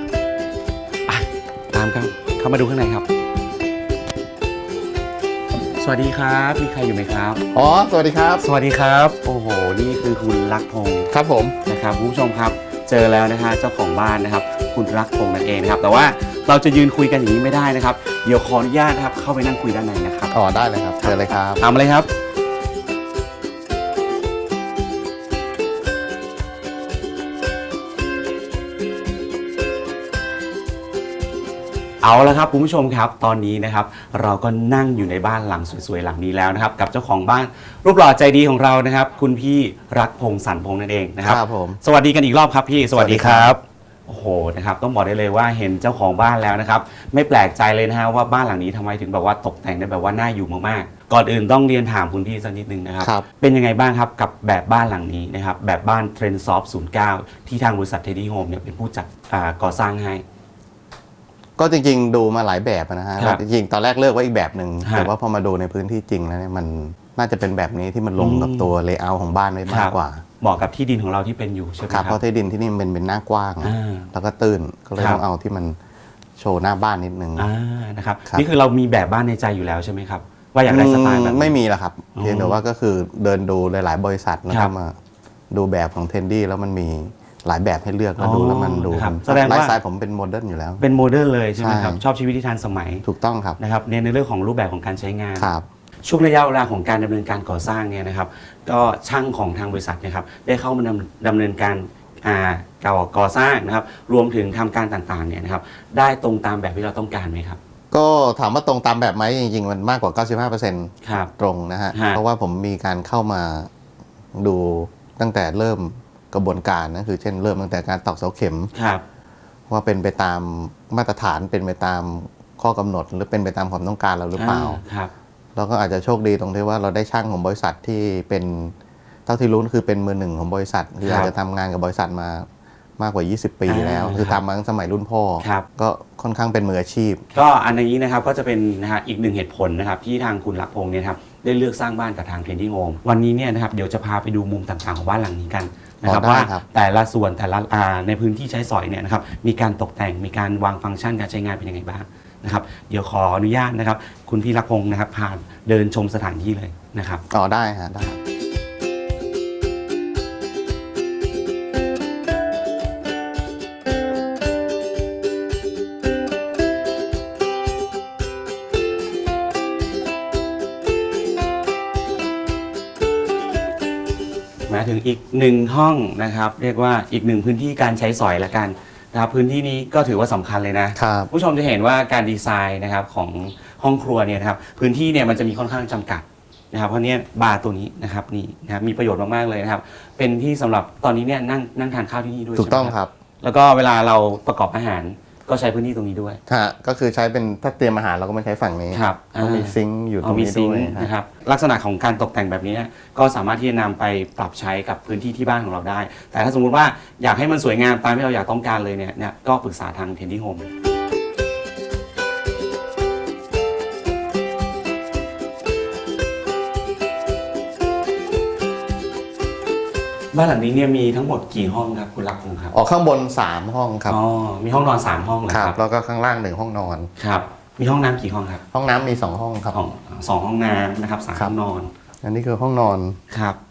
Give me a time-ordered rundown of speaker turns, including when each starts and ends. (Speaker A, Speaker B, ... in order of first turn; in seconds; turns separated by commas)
Speaker A: 1.1-3.1, Speaker A: 5.8-7.4, Speaker B: 7.5-8.4, Speaker A: 8.4-11.1, Speaker B: 11.1-11.6, Speaker A: 11.7-20.3, Speaker B: 20.3-21.6, Speaker A: 21.0-22.1, Speaker A: 32.0-60.2, Speaker B: 41.2-41.8, Speaker B: 42.9-43.6, Speaker B: 53.0-53.2, Speaker B: 61.6-70.2, Speaker A: 63.2-63.4, Speaker A: 64.8-65.1, Speaker A: 68.2-68.7, Speaker A: 69.7-72.2, Speaker B: 71.9-75.8, Speaker A: 73.6-74.1, Speaker A: 75.0-75.2, Speaker B: 76.4-77.5, Speaker A: 77.4-81.5, Speaker B: 80.7-85.0, Speaker A: 82.2-82.6, Speaker B: 85.5-90.8, Speaker A: 88.2-89.8, Speaker A: 90.8-93.0, Speaker B: 91.6-92.0, Speaker B: 93.0-93.6, Speaker A: 93.6-95.5, Speaker B: 95.4-95.7, Speaker A: 96.0-107.6, Speaker B: 107.9-113.7, Speaker A: 111.0-111.3, Speaker A: 111.9-112.2, Speaker B: 114.3-118.7, Speaker A: 118.7-119.0, Speaker B: 119.7-124.8, Speaker A: 124.4-125.1, Speaker B: 125.5-128.8, Speaker B: 129.3-132.5, Speaker A: 131.0-131.3, Speaker B: 133.0-137.2, Speaker A: 133.7-134.4, Speaker A: 135.4-135.7, Speaker A: 137.3-157.2, Speaker B: 146.1-146.7, Speaker B: 157.3-158.2, Speaker A: 174.7-196.4, Speaker B: 181.0-181.3, Speaker B: 192.6-193.1, Speaker B: 196.5-201.1, Speaker A: 198.9-210.7, Speaker A: 220.3-222.7, Speaker B: 222.7-224.2, Speaker A: 224.1-225.8, Speaker B: 225.5-227.1, Speaker A: 227.2-228.6, Speaker B: 228.7-229.8, Speaker A: 229.7-231.9, Speaker B: 232.2-233.2, Speaker A: 233.3-233.6